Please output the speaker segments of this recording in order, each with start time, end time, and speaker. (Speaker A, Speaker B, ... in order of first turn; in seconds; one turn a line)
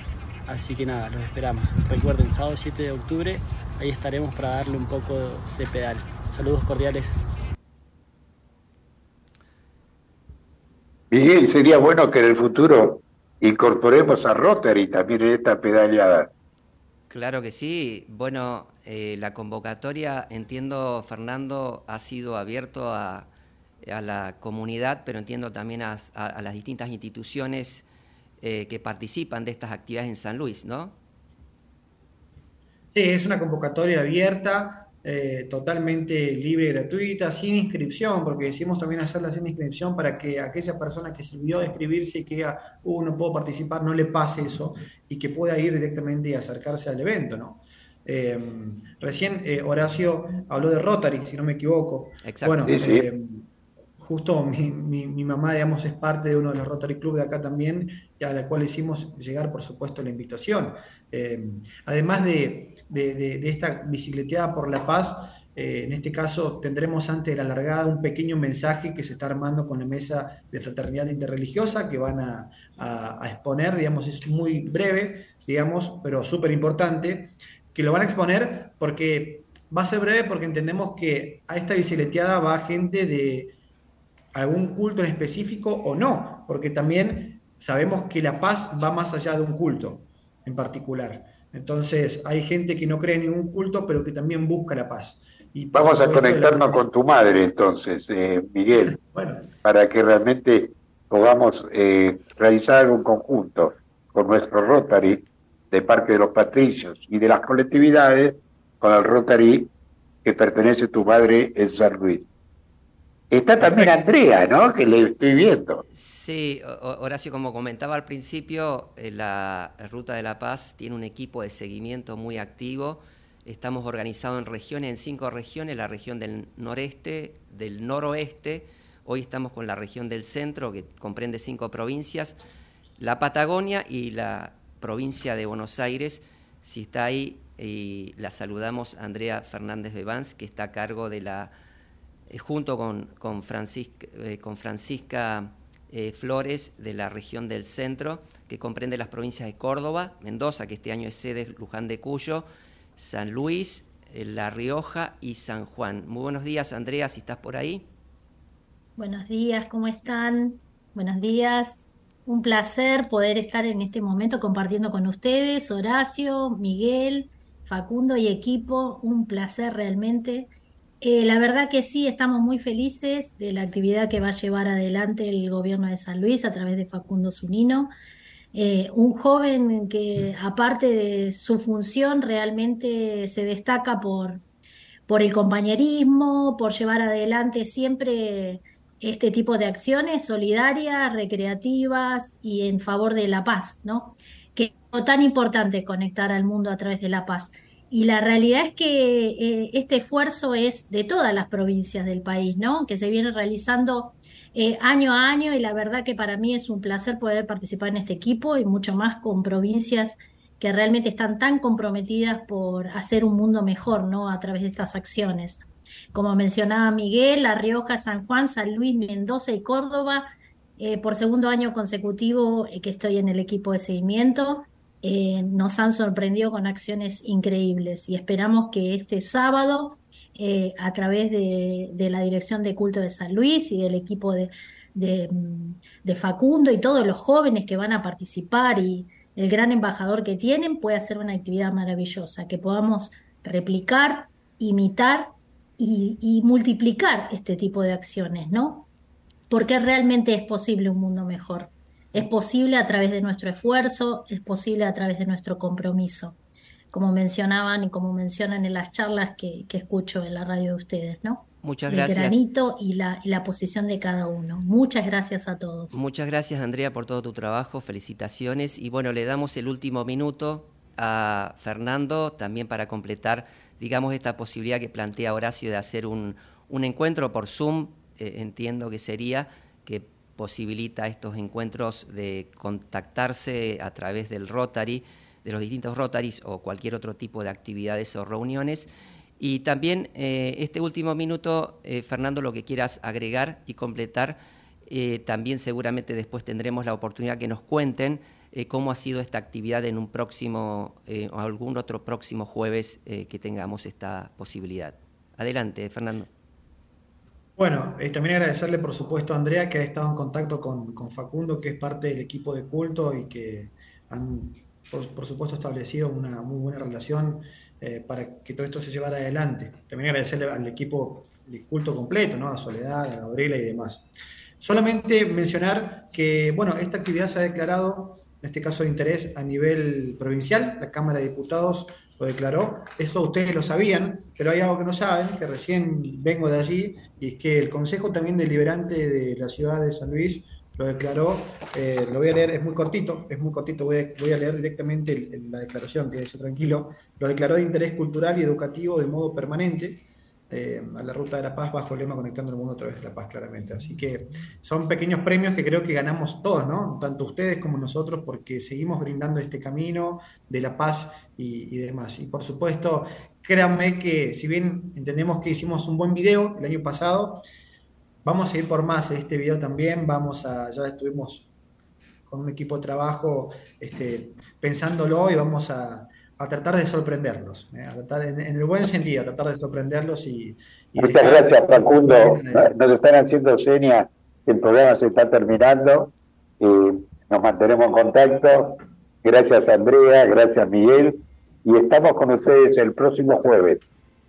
Speaker A: 0.5-7.2
Speaker B: 11.1-16.3
Speaker C: 17.1-23.3
Speaker C: 23.8-27.9
Speaker C: 28.4-31.0
Speaker D: 32.9-83.5
Speaker C: 52.2-52.6
Speaker B: 52.6-53.0
Speaker D: 84.3-96.8
Speaker B: 95.7-99.0
Speaker D: 98.8-99.5
Speaker B: 99.6-109.7
Speaker B: 110.2-112.3
Speaker B: 113.3-115.8
Speaker C: 115.9-132.4
Speaker C: 133.0-141.5
Speaker C: 142.3-152.5
Speaker C: 153.0-157.9
Speaker E: 159.0-170.5
Speaker E: 171.0-177.9
Speaker E: 178.5-184.4
Speaker E: 185.1-248.9
Speaker E: 249.5-256.4
Speaker E: 256.9-266.0
Speaker C: 261.6-262.4
Speaker C: 265.9-288.9
Speaker C: 289.4-306.3
Speaker D: 307.6-324.1
Speaker D: 324.6-367.4
Speaker D: 368.2-371.5
Speaker D: 372.3-382.8
Speaker B: 381.0-393.8